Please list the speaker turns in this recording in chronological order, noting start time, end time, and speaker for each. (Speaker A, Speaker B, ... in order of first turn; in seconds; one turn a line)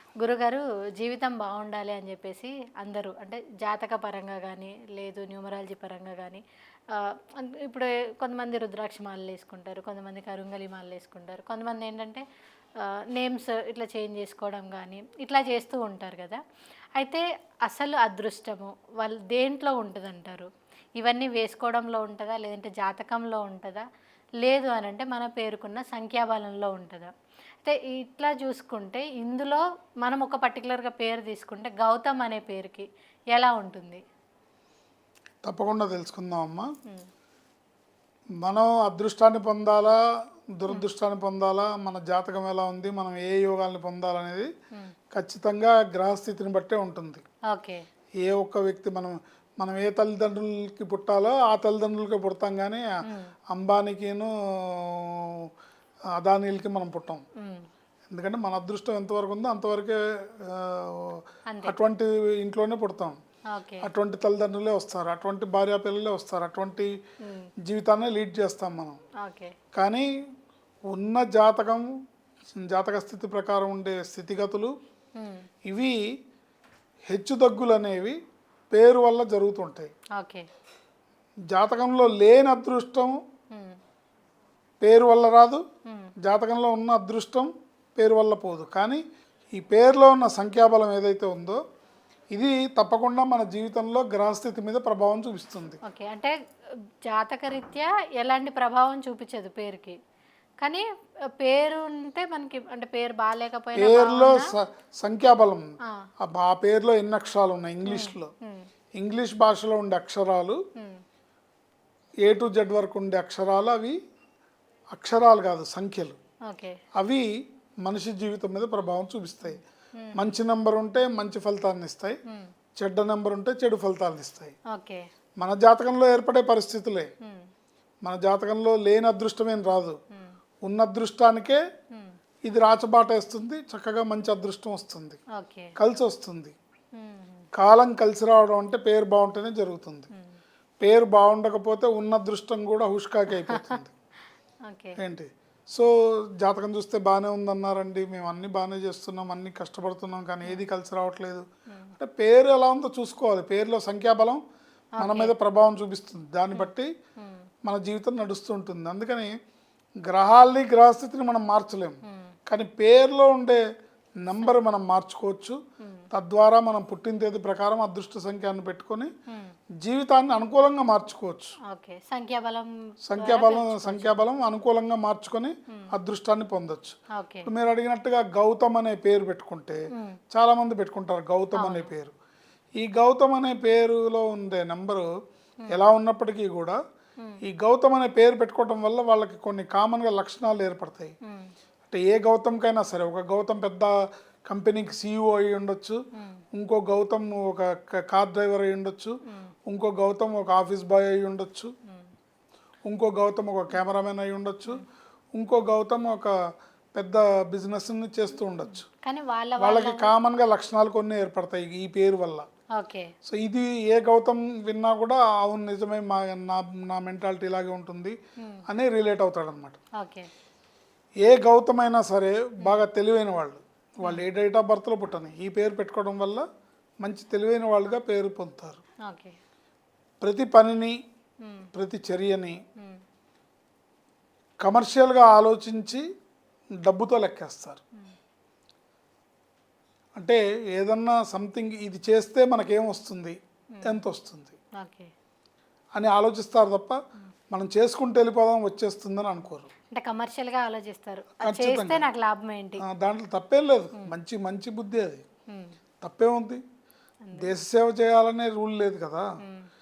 Speaker A: 0.2-12.2
Speaker A: 12.8-16.4
Speaker A: 17.0-23.8
Speaker A: 24.4-27.1
Speaker A: 27.6-34.0
Speaker B: 35.4-36.7
Speaker B: 38.4-39.9
Speaker B: 40.6-44.5
Speaker B: 45.1-47.2
Speaker A: 47.5-47.8
Speaker B: 48.2-52.9
Speaker A: 53.0-53.3
Speaker B: 53.5-55.5
Speaker B: 56.2-57.2
Speaker A: 57.4-57.6
Speaker B: 58.1-63.2
Speaker A: 61.5-61.8
Speaker A: 63.5-63.9
Speaker B: 63.8-66.9
Speaker B: 67.7-69.0
Speaker A: 69.2-69.5
Speaker B: 69.7-70.1
Speaker B: 70.9-71.8
Speaker B: 72.5-74.7
Speaker A: 75.2-75.4
Speaker B: 75.7-76.0
Speaker B: 77.1-78.2
Speaker B: 78.7-79.9
Speaker A: 80.2-80.5
Speaker B: 81.5-83.2
Speaker A: 83.5-83.8
Speaker B: 84.8-85.6
Speaker B: 86.2-89.0
Speaker B: 89.5-91.6
Speaker B: 92.3-95.8
Speaker A: 95.8-96.3
Speaker A: 97.1-100.0
Speaker A: 101.4-104.5
Speaker B: 103.8-108.3
Speaker A: 107.8-108.7
Speaker B: 109.0-110.6
Speaker B: 112.2-114.0
Speaker B: 114.9-116.2
Speaker A: 116.5-116.8
Speaker B: 117.0-117.2
Speaker B: 117.8-119.6
Speaker A: 119.5-120.3
Speaker B: 120.2-122.2
Speaker B: 122.8-124.5
Speaker A: 124.7-125.0
Speaker B: 125.4-127.1
Speaker B: 128.0-130.0
Speaker B: 130.6-131.6
Speaker B: 132.4-135.2
Speaker A: 135.4-135.7
Speaker B: 135.8-136.5
Speaker A: 136.9-137.5
Speaker B: 137.5-140.1
Speaker B: 140.8-143.9
Speaker A: 143.3-143.8
Speaker A: 144.7-145.0
Speaker B: 145.0-151.4
Speaker B: 152.0-154.4
Speaker A: 155.0-155.3
Speaker B: 155.0-156.9
Speaker A: 156.5-157.4
Speaker B: 157.6-159.3
Speaker B: 160.1-163.6
Speaker B: 164.2-165.6
Speaker A: 165.8-166.1
Speaker B: 166.1-169.1
Speaker B: 169.8-171.5
Speaker A: 171.7-174.2
Speaker B: 173.1-179.8
Speaker A: 177.2-177.5
Speaker B: 180.3-182.1
Speaker A: 181.5-181.9
Speaker B: 182.8-185.1
Speaker B: 185.7-186.8
Speaker B: 187.4-191.1
Speaker B: 191.9-193.9
Speaker B: 194.5-196.0
Speaker A: 196.1-196.4
Speaker B: 196.5-199.2
Speaker B: 199.7-201.7
Speaker B: 202.8-204.8
Speaker B: 205.3-206.3
Speaker B: 206.9-208.8
Speaker A: 209.0-210.1
Speaker B: 209.6-212.4
Speaker A: 212.8-213.1
Speaker B: 213.2-218.2
Speaker A: 218.4-218.6
Speaker B: 218.7-219.8
Speaker A: 220.0-220.3
Speaker B: 221.2-226.4
Speaker B: 227.0-228.8
Speaker A: 229.1-229.4
Speaker B: 230.2-231.0
Speaker A: 231.4-231.7
Speaker B: 231.7-232.6
Speaker B: 234.6-236.0
Speaker B: 236.8-237.8
Speaker B: 240.2-244.6
Speaker A: 243.7-244.0
Speaker A: 244.8-245.1
Speaker B: 245.9-247.0
Speaker B: 247.5-249.7
Speaker A: 249.9-252.8
Speaker B: 251.4-252.1
Speaker B: 252.8-255.2
Speaker A: 255.5-255.8
Speaker B: 256.0-256.6
Speaker A: 257.2-257.5
Speaker B: 257.4-259.2
Speaker A: 259.4-259.7